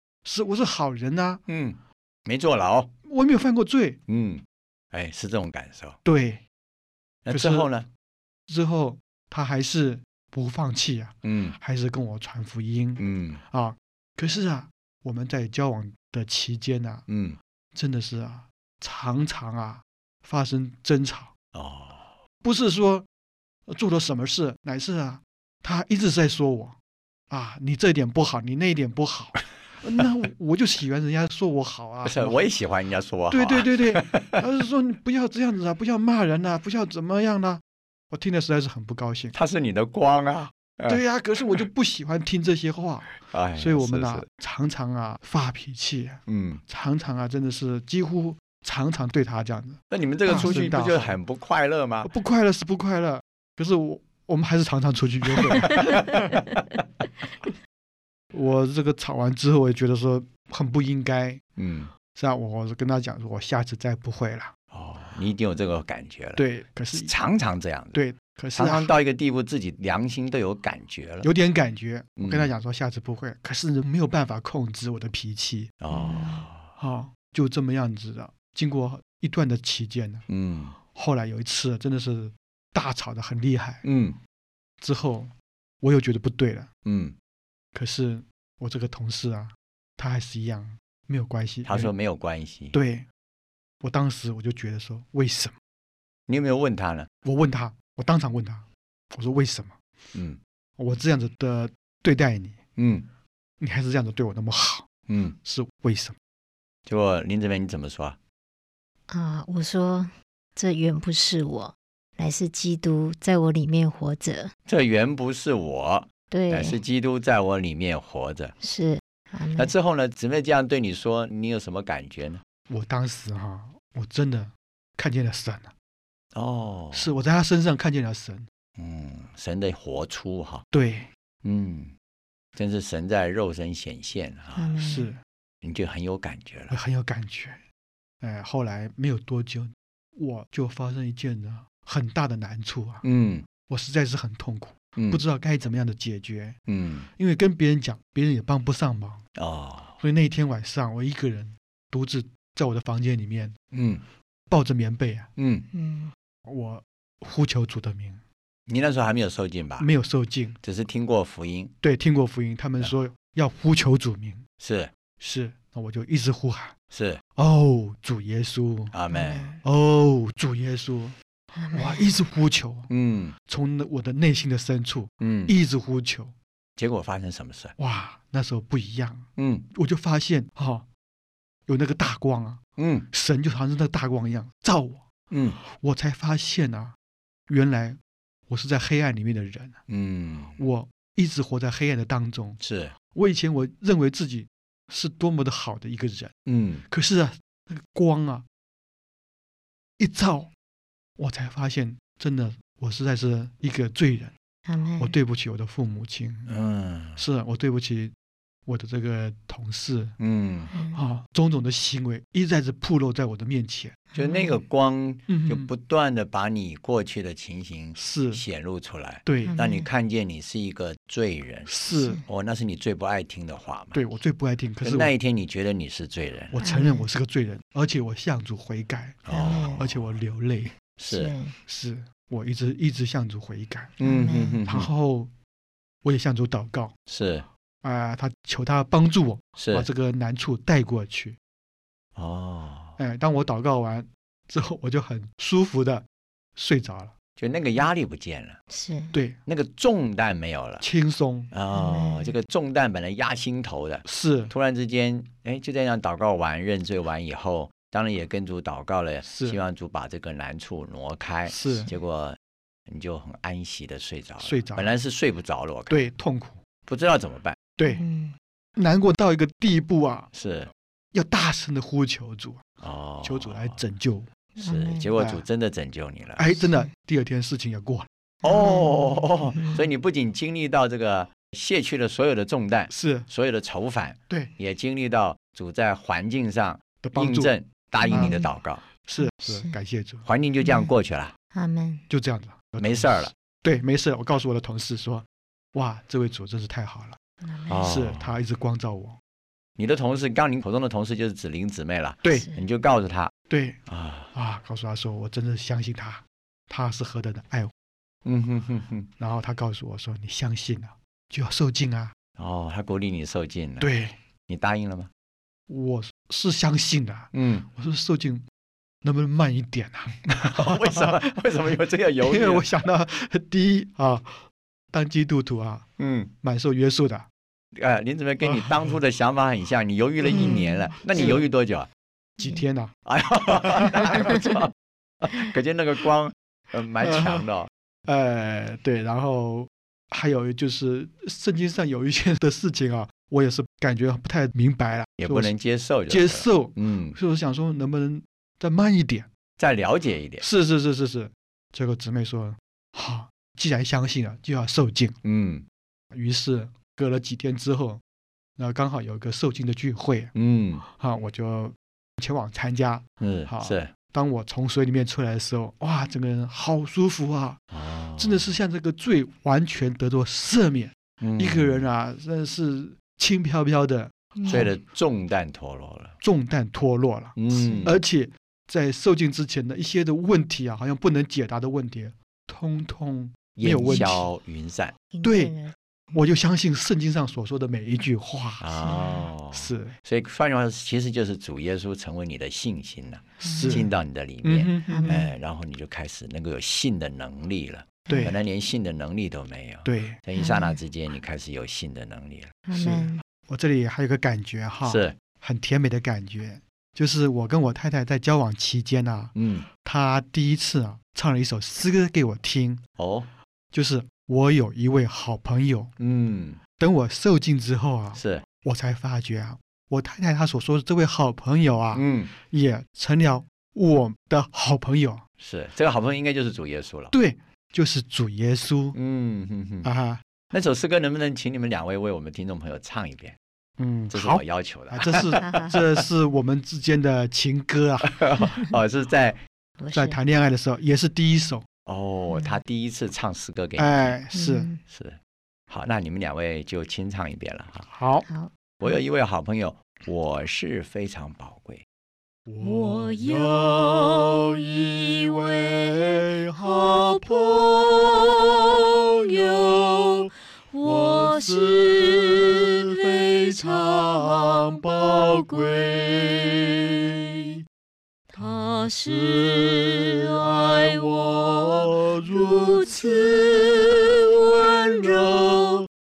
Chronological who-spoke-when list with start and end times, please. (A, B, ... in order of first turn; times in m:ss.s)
0:00.2-0:01.4 A
0:01.5-0:02.9 B
0:03.0-0:04.0 A
0:04.1-0:06.0 B
0:06.0-0:06.4 A
0:07.2-0:07.9 B
0:07.3-0:07.7 A
0:08.5-0:17.0 A
0:11.2-0:11.6 B
0:13.0-0:13.4 B
0:17.1-0:17.4 B
0:17.8-0:21.3 A
0:21.5-0:22.2 B
0:22.4-0:23.1 A
0:23.7-0:26.8 A
0:27.3-0:32.4 A
0:32.0-0:34.4 B
0:33.3-0:39.4 A
0:39.3-0:41.6 B
0:40.9-0:51.2 A
0:43.3-0:44.3 B
0:46.3-0:46.6 B
0:49.9-0:52.1 B
0:52.0-0:56.4 A
0:55.4-0:55.9 B
0:58.3-1:01.4 A
1:01.6-1:01.9 B
1:02.1-1:04.5 A
1:04.7-1:08.0 B
1:06.4-1:07.1 A
1:07.9-1:08.9 A
1:08.6-1:11.3 B
1:11.2-1:15.7 A
1:12.2-1:12.5 B
1:15.8-1:16.7 B
1:15.9-1:16.4 C
1:16.8-1:20.2 A
1:20.3-1:20.8 B
1:20.8-1:23.8 A
1:23.8-1:24.2 B
1:24.8-1:26.7 A
1:26.8-1:27.1 B
1:27.7-1:31.9 A
1:31.6-1:32.8 B
1:32.7-1:33.1 A
1:33.8-1:35.6 A
1:36.3-1:37.1 B
1:37.2-1:39.8 A
1:40.1-1:40.4 B
1:40.8-1:42.6 A
1:42.8-1:43.1 B
1:43.6-1:44.9 A
1:45.1-1:45.4 B
1:45.4-1:46.2 A
1:46.9-1:48.2 B
1:49.1-1:54.5 C
1:54.7-1:58.5 B
1:56.3-1:56.8 C
1:58.6-1:59.7 C
1:59.6-2:02.4 B
2:02.7-2:05.7 A
2:06.3-2:07.1 B
2:06.9-2:08.5 A
2:08.8-2:10.6 B
2:10.7-2:11.1 A
2:11.4-2:11.9 B
2:12.6-2:14.8 B
2:14.6-2:15.1 C
2:14.8-2:15.2 A
2:15.6-2:16.8 B
2:16.7-2:17.6 A
2:18.2-2:23.0 A
2:23.0-2:23.5 B
2:23.6-2:26.6 A
2:25.0-2:25.2 B
2:26.7-2:27.1 B
2:27.1-2:29.2 A
2:29.4-2:30.0 B
2:30.0-2:33.6 A
2:33.7-2:34.0 B
2:34.5-2:35.3 A
2:35.4-2:35.7 B
2:35.7-2:36.1 C
2:36.5-2:38.2 A
2:38.7-2:39.9 B
2:39.8-2:40.6 A
2:40.6-2:41.7 B
2:41.8-2:44.4 A
2:44.6-2:44.9 B
2:45.2-2:46.7 A
2:46.9-2:47.2 B
2:47.4-2:49.0 A
2:48.9-2:49.5 B
2:49.1-2:49.6 C
2:49.6-2:51.2 A
2:51.6-2:52.1 C
2:51.7-2:52.9 A
2:52.9-2:53.4 B
2:53.5-2:56.4 A
2:55.2-2:55.5 B
2:56.8-2:57.7 B
2:57.8-3:00.9 A
2:59.4-2:59.7 B
3:01.7-3:02.6 A
3:02.8-3:03.1 B
3:03.1-3:05.1 A
3:05.3-3:05.6 B
3:05.6-3:07.0 A
3:07.5-3:08.0 A
3:08.5-3:09.8 A
3:09.9-3:10.6 B
3:10.6-3:12.6 A
3:12.6-3:12.9 B
3:13.1-3:16.3 A
3:16.5-3:16.8 B
3:16.9-3:18.4 A
3:20.0-3:20.5 A
3:21.2-3:24.3 A
3:24.7-3:25.1 C
3:25.0-3:26.5 A
3:26.5-3:27.2 B
3:27.2-3:28.1 A
3:28.7-3:30.2 A
3:30.2-3:30.7 B
3:30.7-3:31.0 C
3:30.9-3:34.0 A
3:34.1-3:34.6 C
3:34.2-3:44.0 B
3:35.3-3:35.7 A
3:38.0-3:38.4 A
3:39.3-3:39.6 A
3:39.4-3:39.9 C
3:41.7-3:42.2 A
3:41.9-3:42.2 C
3:43.9-3:45.1 A
3:44.8-3:46.6 B
3:46.5-3:49.2 A
3:46.6-3:47.1 C
3:49.2-3:50.0 B
3:49.3-3:49.8 C
3:49.8-3:50.8 A
3:51.0-3:51.3 B
3:51.1-3:51.6 C
3:51.7-3:53.9 A
3:54.0-3:54.9 B
3:54.0-3:54.6 C
3:54.7-3:55.3 A
3:56.0-3:56.9 A
3:57.1-3:57.5 B
3:57.8-4:01.4 A
3:59.6-3:59.9 B
4:02.2-4:03.0 B
4:03.0-4:06.0 A
4:06.6-4:07.1 A
4:07.4-4:08.6 B
4:08.7-4:09.1 C
4:09.1-4:09.4 A
4:09.5-4:10.8 B
4:10.8-4:11.5 A
4:11.5-4:22.4 B
4:11.7-4:12.3 C
4:14.0-4:14.5 A
4:19.2-4:19.6 A
4:21.5-4:21.9 A
4:22.9-4:26.0 B
4:24.4-4:24.9 A
4:25.9-4:26.6 A
4:26.9-4:27.6 B
4:27.8-4:28.0 A
4:28.0-4:28.3 C
4:28.8-4:30.3 A
4:30.3-4:30.7 B
4:31.1-4:32.6 A
4:32.8-4:33.8 B
4:33.2-4:34.3 A
4:34.6-4:36.6 B
4:34.6-4:35.1 C
4:35.2-4:35.4 A
4:36.4-4:38.1 A
4:38.4-4:39.8 C
4:38.4-4:48.8 B
4:42.9-4:43.3 A
4:47.0-4:47.5 A
4:48.0-4:48.5 C
4:48.1-4:48.4 A
4:49.0-4:50.3 A
4:49.2-4:49.8 C
4:50.2-4:51.3 B
4:50.6-4:50.9 C
4:51.5-4:52.1 C
4:52.1-4:57.2 A
4:52.8-4:53.3 B
4:57.4-4:57.9 C
4:57.7-4:58.3 B
4:57.8-4:59.2 A
4:59.8-5:03.3 B
5:02.3-5:02.6 C
5:03.5-5:03.8 A
5:03.9-5:04.3 B
5:04.3-5:07.7 A
5:08.2-5:09.1 B
5:09.2-5:12.1 A
5:12.4-5:13.9 B
5:13.8-5:14.2 A
5:14.5-5:15.1 B
5:15.7-5:18.4 A
5:17.3-5:17.7 B
5:19.0-5:21.4 A
5:20.4-5:22.6 B
5:22.2-5:24.4 A
5:24.9-5:25.9 A
5:26.0-5:26.3 B
5:26.4-5:27.3 A
5:27.8-5:31.9 B
5:28.4-5:29.0 A
5:30.2-5:30.6 A
5:30.3-5:31.3 C
5:31.2-5:31.4 A
5:32.4-5:32.9 A
5:33.1-5:37.7 B
5:37.0-5:37.4 A
5:38.1-5:45.5 A
5:45.2-5:47.2 B
5:46.1-5:49.3 A
5:49.6-5:50.5 B
5:50.4-5:55.2 A
5:55.2-5:55.6 B
5:56.1-5:58.0 A
5:58.6-6:00.3 A
6:00.4-6:00.8 B
6:00.8-6:07.6 A
6:03.2-6:03.9 B
6:07.7-6:08.5 B
6:08.2-6:14.8 A
6:11.2-6:11.8 B
6:14.4-6:14.7 C
6:14.5-6:16.2 B
6:16.2-6:24.3 A
6:17.4-6:18.0 B
6:17.6-6:17.9 C
6:23.6-6:24.9 B
6:23.9-6:24.1 C
6:25.1-6:25.8 C
6:25.2-6:25.5 A
6:26.1-6:28.7 A
6:28.6-6:42.6 B
6:28.8-6:29.2 C
6:29.6-6:30.0 A
6:33.4-6:33.9 C
6:33.4-6:33.9 A
6:34.4-6:35.2 A
6:34.9-6:35.3 C
6:38.1-6:38.4 C
6:38.1-6:38.4 A
6:39.9-6:40.2 A
6:40.4-6:40.8 C
6:42.7-6:43.2 C
6:42.7-6:52.8 A
6:44.8-6:45.2 B
6:49.4-6:49.7 B
6:53.0-6:53.3 B
6:53.7-6:55.9 A
6:56.0-6:56.6 B
6:56.8-7:05.2 A
6:58.1-6:58.4 B
7:01.9-7:02.3 B
7:05.4-7:07.1 B
7:07.1-7:09.0 A
7:08.9-7:09.9 B
7:09.8-7:10.2 A
7:10.5-7:13.4 B
7:13.8-7:18.5 A
7:14.1-7:16.0 B
7:15.4-7:15.8 C
7:18.0-7:19.4 B
7:18.4-7:18.7 C
7:19.8-7:20.2 C
7:19.9-7:21.7 A
7:21.9-7:24.2 B
7:23.8-7:24.7 A
7:24.3-7:24.8 C
7:24.9-7:25.2 B
7:25.7-7:27.9 B
7:27.9-7:28.3 A
7:28.8-7:31.8 B
7:32.5-7:47.6 A
7:48.4-7:48.6 C
7:48.4-7:55.9 A